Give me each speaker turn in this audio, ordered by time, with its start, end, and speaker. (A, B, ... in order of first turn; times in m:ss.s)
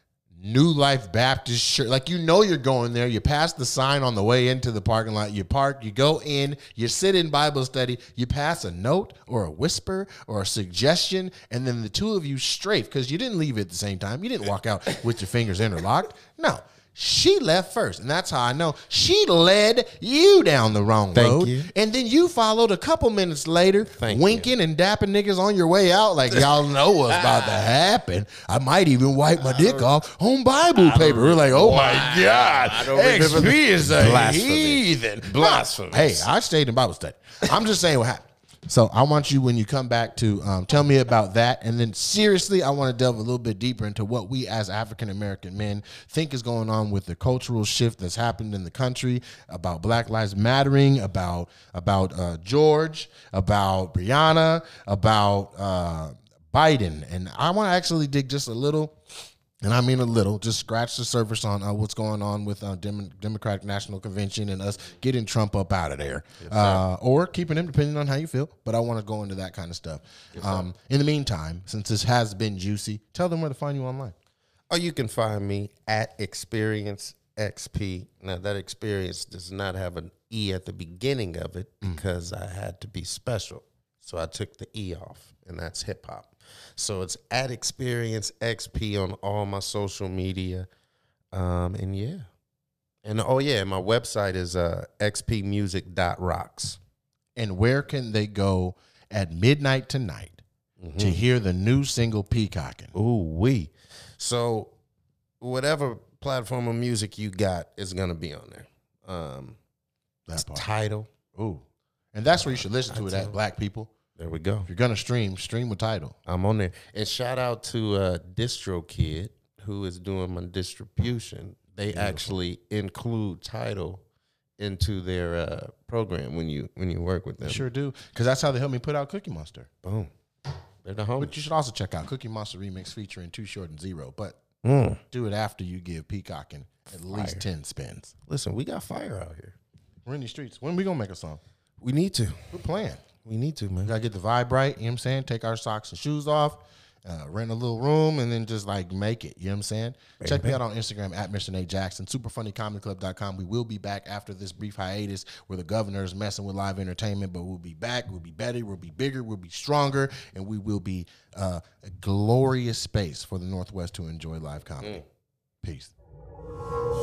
0:00.4-0:59.0 A
0:21.1-0:21.7 B
0:24.0-0:24.5 B
0:27.1-0:27.6 B
0:29.4-0:29.9 B
0:30.7-0:36.3 B
0:59.6-1:14.1 A
1:06.4-1:06.8 B
1:10.3-1:10.7 B
1:14.7-1:30.7 B
1:31.3-1:32.3 B
1:33.0-1:36.8 B
1:37.4-1:40.4 A
1:40.8-1:41.2 B
1:41.0-1:42.9 A
1:42.9-1:44.7 B
1:45.4-1:49.6 B
1:50.3-1:50.6 A
1:50.3-1:51.1 B
1:51.3-1:53.9 A
1:52.4-1:53.4 B
1:54.2-1:54.7 B
1:54.7-1:56.2 A
1:56.2-2:04.0 B
2:01.9-2:02.4 A
2:04.6-2:07.6 B
2:07.4-2:09.7 A
2:09.8-2:10.1 B
2:10.8-2:11.4 B
2:11.2-2:14.4 A
2:14.6-2:15.0 B
2:15.1-2:18.1 A
2:17.1-2:17.4 B
2:18.3-2:19.6 B
2:20.0-2:21.4 A
2:21.8-2:22.5 B
2:22.5-2:23.0 A
2:23.2-2:23.9 B
2:23.8-2:45.0 A
2:30.2-2:30.6 B
2:45.6-2:45.9 A